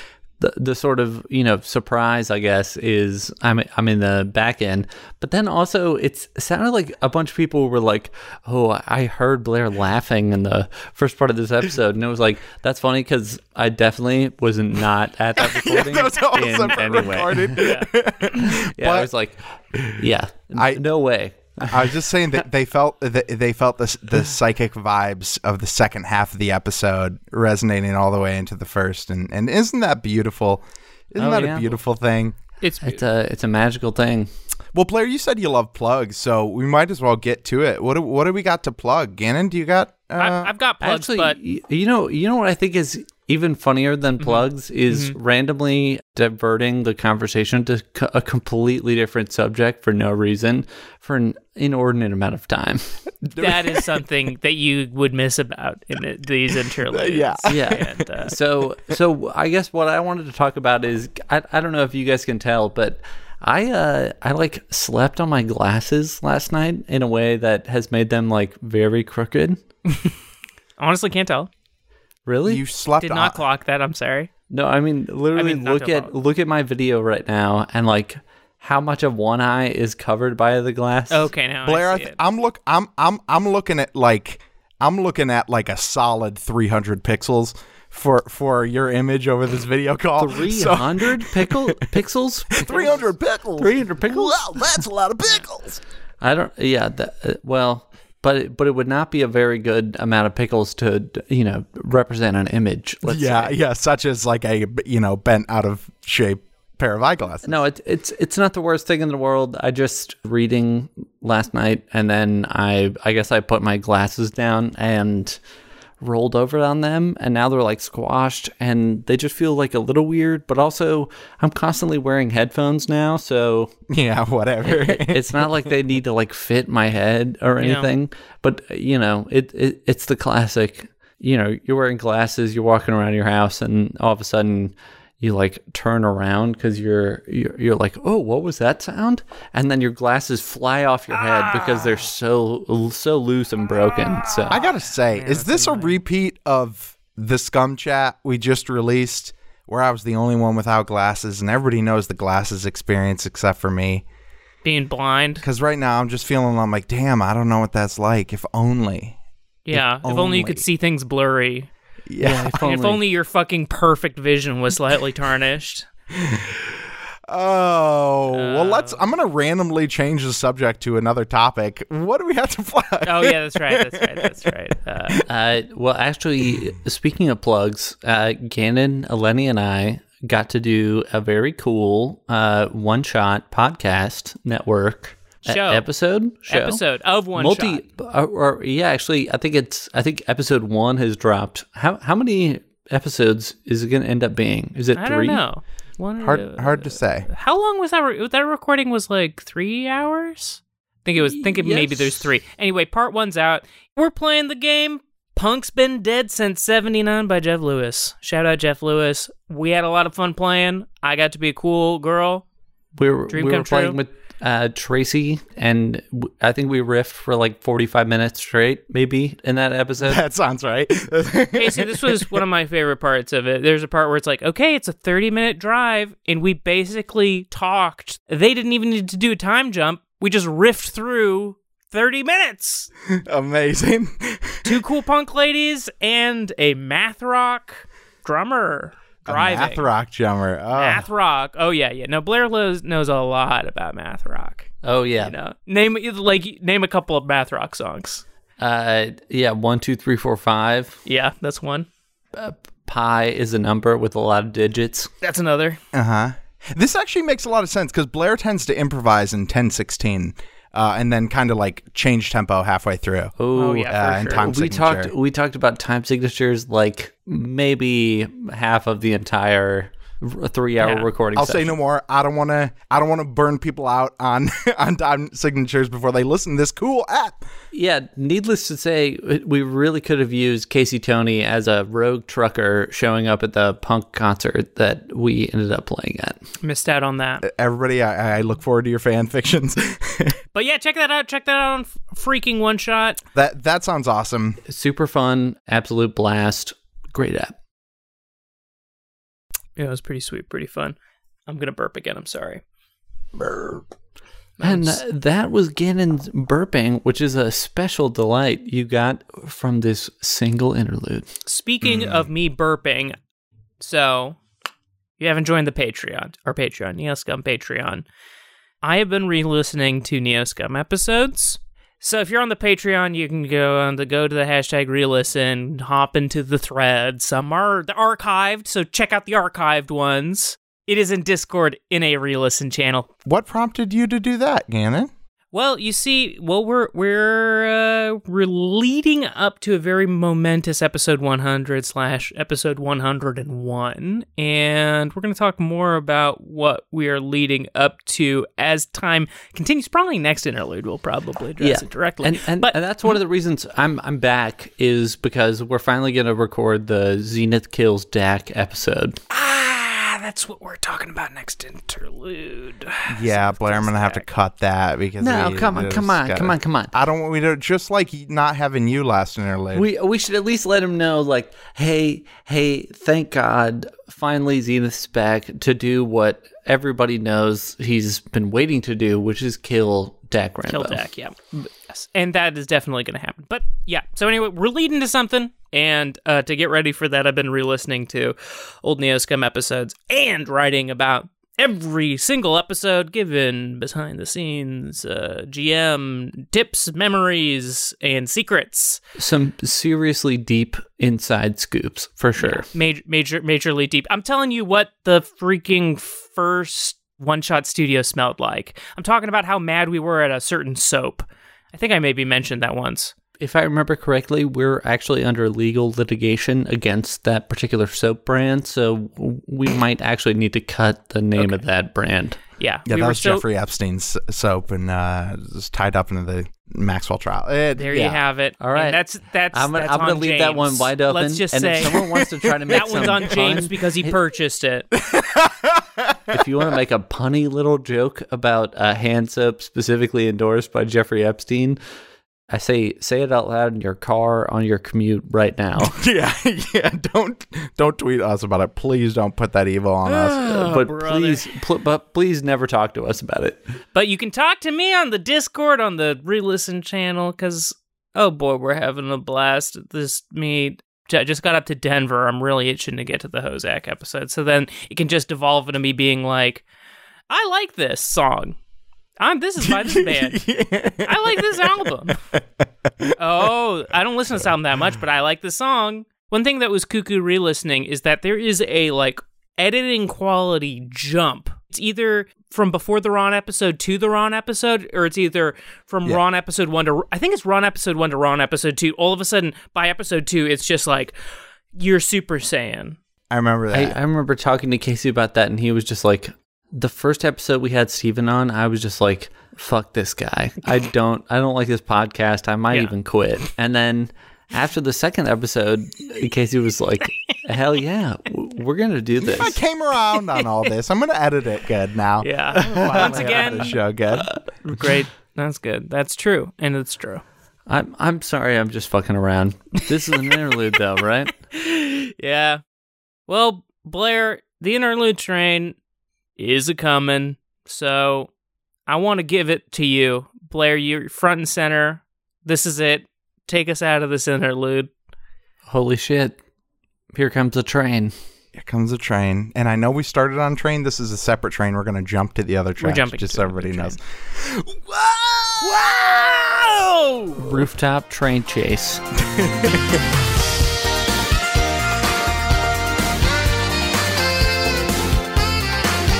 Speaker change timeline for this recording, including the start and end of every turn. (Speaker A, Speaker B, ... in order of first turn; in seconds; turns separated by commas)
Speaker A: 0.4-17.6, Speaker B: 15.4-19.1, Speaker C: 16.7-17.9, Speaker A: 18.5-19.4, Speaker B: 19.7-20.8, Speaker A: 19.9-22.0, Speaker B: 21.7-32.4, Speaker A: 31.2-31.7, Speaker C: 32.6-33.0, Speaker A: 32.8-34.3, Speaker B: 34.7-40.5, Speaker C: 40.2-41.4, Speaker A: 40.8-52.9, Speaker C: 44.2-45.1, Speaker B: 53.2-53.9, Speaker C: 53.4-58.4, Speaker B: 56.9-58.3, Speaker A: 57.5-69.6, Speaker C: 70.8-71.5, Speaker A: 72.2-72.6, Speaker B: 72.4-73.4, Speaker C: 73.0-74.3, Speaker A: 74.5-81.3, Speaker C: 75.3-76.1, Speaker C: 81.1-82.2, Speaker B: 81.6-91.8, Speaker A: 90.2-93.0, Speaker B: 92.5-95.8, Speaker A: 93.6-94.8, Speaker A: 96.2-103.5, Speaker B: 103.0-107.6, Speaker A: 107.5-115.4, Speaker A: 116.0-123.7, Speaker B: 123.9-125.7, Speaker A: 124.6-144.6, Speaker C: 127.6-127.9, Speaker B: 144.5-154.0, Speaker C: 145.1-146.0, Speaker C: 154.6-155.4, Speaker B: 155.4-159.2, Speaker C: 159.7-161.7, Speaker B: 160.0-160.6, Speaker B: 162.1-162.6, Speaker A: 162.2-163.0, Speaker C: 162.6-165.9, Speaker B: 166.1-174.4, Speaker C: 168.3-169.0, Speaker C: 173.0-175.2, Speaker A: 175.3-186.8, Speaker C: 185.4-185.9, Speaker C: 186.5-187.8, Speaker A: 187.3-195.4, Speaker C: 194.9-212.4, Speaker B: 196.2-197.3, Speaker A: 201.2-202.2, Speaker A: 212.9-220.2, Speaker C: 213.3-214.0, Speaker B: 220.0-222.4, Speaker C: 221.5-232.9, Speaker B: 233.1-234.8, Speaker C: 234.6-239.9, Speaker B: 239.3-241.1, Speaker C: 240.7-248.2, Speaker A: 244.8-245.3, Speaker A: 248.6-251.0, Speaker C: 251.1-251.9, Speaker A: 252.3-255.1, Speaker C: 255.2-255.8, Speaker B: 255.9-263.3, Speaker A: 263.4-271.7, Speaker C: 263.5-264.4, Speaker B: 263.9-265.1, Speaker C: 270.8-271.1, Speaker B: 271.3-277.4, Speaker A: 277.7-286.4, Speaker C: 286.6-287.4, Speaker B: 287.4-290.4, Speaker C: 290.5-293.2, Speaker B: 293.3-294.6, Speaker A: 294.7-297.6, Speaker C: 299.8-300.9, Speaker C: 301.5-302.6, Speaker C: 304.6-305.0, Speaker A: 304.6-311.3, Speaker C: 311.4-313.1, Speaker B: 311.8-312.3, Speaker C: 313.8-314.4, Speaker C: 315.2-318.1, Speaker C: 318.8-333.1, Speaker B: 333.2-335.1, Speaker C: 335.5-353.1, Speaker A: 351.6-359.2, Speaker C: 359.3-364.2, Speaker B: 363.1-369.9, Speaker A: 365.2-366.9, Speaker A: 369.7-381.0, Speaker C: 380.7-399.0, Speaker A: 399.2-402.6, Speaker C: 402.4-413.1, Speaker A: 413.4-422.4, Speaker C: 421.4-421.6, Speaker C: 422.5-423.4, Speaker B: 422.9-428.2, Speaker C: 427.7-432.0, Speaker A: 428.6-429.0, Speaker A: 429.5-434.2, Speaker B: 432.0-432.8, Speaker C: 432.7-434.9, Speaker B: 435.0-436.4, Speaker A: 436.3-441.8, Speaker A: 442.5-446.0, Speaker B: 445.8-450.8, Speaker C: 450.1-451.5, Speaker A: 450.7-453.7, Speaker C: 453.9-466.6, Speaker C: 467.3-468.6, Speaker C: 469.2-470.4, Speaker B: 469.6-472.4, Speaker C: 471.0-472.2, Speaker C: 473.2-491.1, Speaker C: 491.8-493.0, Speaker B: 493.3-494.0, Speaker A: 493.7-509.6, Speaker C: 502.7-502.9, Speaker B: 509.2-514.3, Speaker C: 512.2-517.2, Speaker A: 512.9-513.4, Speaker A: 517.7-521.3, Speaker C: 521.5-522.6, Speaker C: 523.3-525.8, Speaker C: 526.4-528.3, Speaker C: 528.9-534.9, Speaker A: 535.7-536.4, Speaker A: 537.1-538.1, Speaker B: 538.5-545.8, Speaker C: 542.8-544.0, Speaker C: 545.6-547.7, Speaker A: 547.4-549.0, Speaker B: 549.3-550.0